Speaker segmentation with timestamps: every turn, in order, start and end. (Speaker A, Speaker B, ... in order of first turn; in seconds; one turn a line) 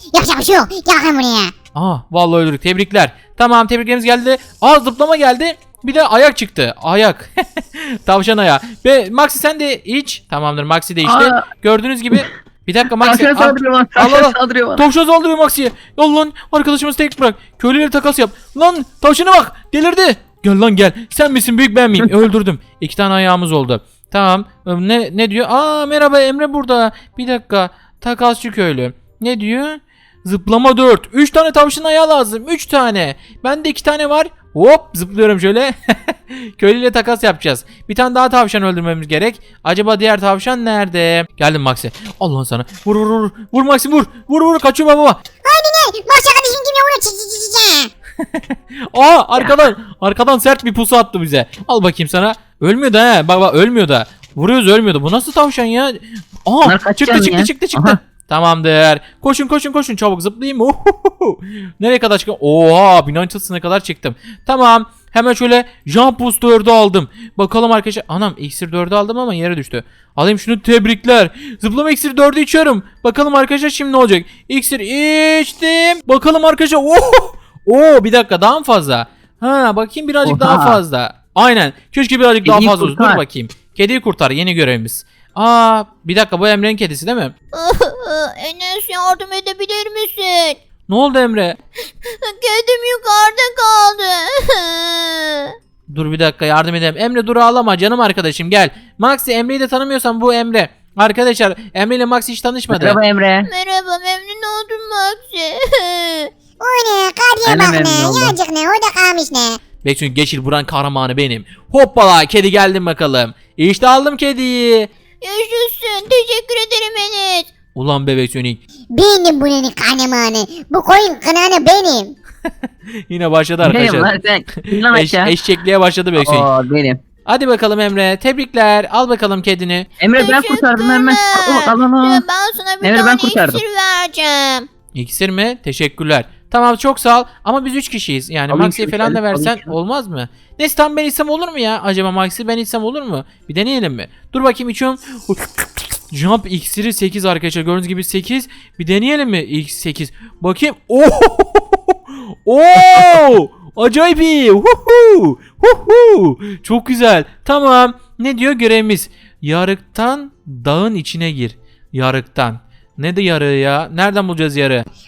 Speaker A: 0.1-1.5
Speaker B: 1.7-45.2
Speaker C: 11.0-11.4
Speaker C: 13.0-14.8
Speaker A: 45.4-47.9
Speaker B: 48.4-87.3
Speaker C: 56.6-58.0
Speaker C: 80.2-80.8
Speaker C: 82.5-83.2
Speaker D: 87.5-90.6
Speaker B: 90.9-91.6
Speaker D: 92.1-95.5
Speaker B: 95.9-103.0
Speaker C: 102.7-103.5
Speaker D: 103.5-106.3
Speaker A: 106.6-109.6
Speaker C: 107.5-108.3
Speaker B: 109.8-114.9
Speaker D: 115.2-117.5
Speaker B: 117.8-118.6
Speaker A: 118.9-122.2
Speaker B: 123.1-126.5
Speaker C: 123.6-125.3
Speaker C: 126.2-127.0
Speaker B: 127.3-129.9
Speaker C: 130.0-132.2
Speaker D: 130.2-134.7
Speaker C: 132.8-133.6
Speaker B: 134.9-164.8
Speaker C: 138.5-139.7